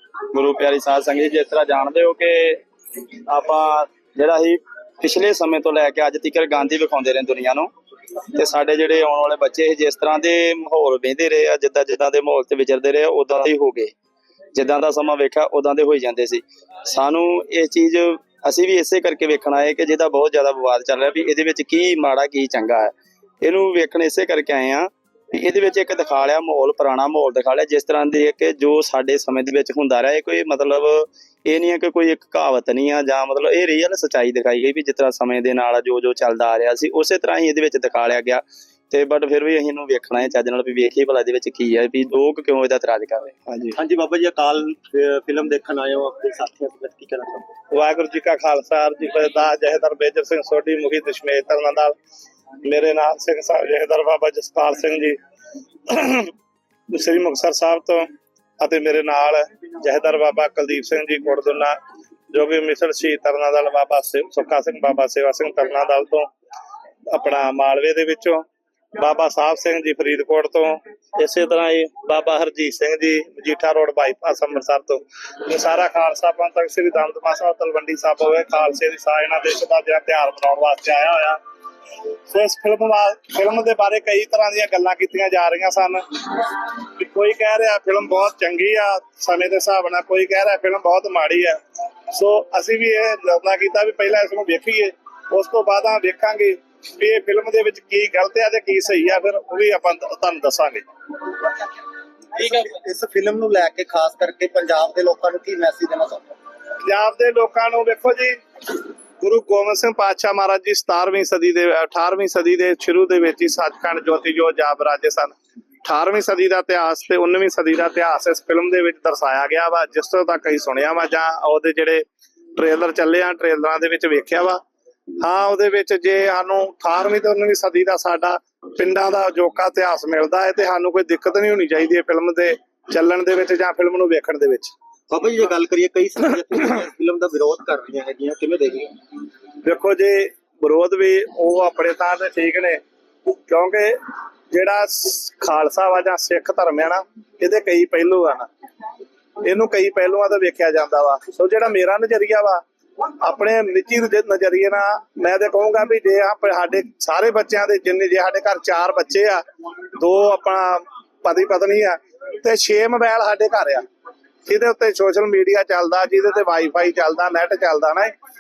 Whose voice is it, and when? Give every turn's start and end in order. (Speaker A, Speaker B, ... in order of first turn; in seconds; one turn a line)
Speaker A: 0.3-2.6
Speaker A: 3.3-7.7
Speaker A: 8.3-13.9
Speaker A: 14.5-43.4
Speaker B: 43.7-47.5
Speaker C: 47.7-51.9
Speaker C: 52.6-55.2
Speaker C: 55.9-56.3
Speaker C: 56.9-58.0
Speaker C: 58.6-61.8
Speaker C: 62.3-66.3
Speaker C: 67.1-68.4
Speaker C: 69.0-81.4
Speaker C: 82.3-91.6
Speaker C: 92.1-100.8
Speaker B: 102.3-106.3
Speaker C: 106.8-108.4
Speaker C: 109.2-124.6
Speaker C: 125.2-134.7
Speaker B: 135.1-138.9
Speaker C: 139.6-144.0
Speaker C: 144.5-148.5
Speaker C: 149.4-152.6
Speaker C: 153.2-159.4
Speaker C: 159.9-163.8
Speaker C: 164.4-168.1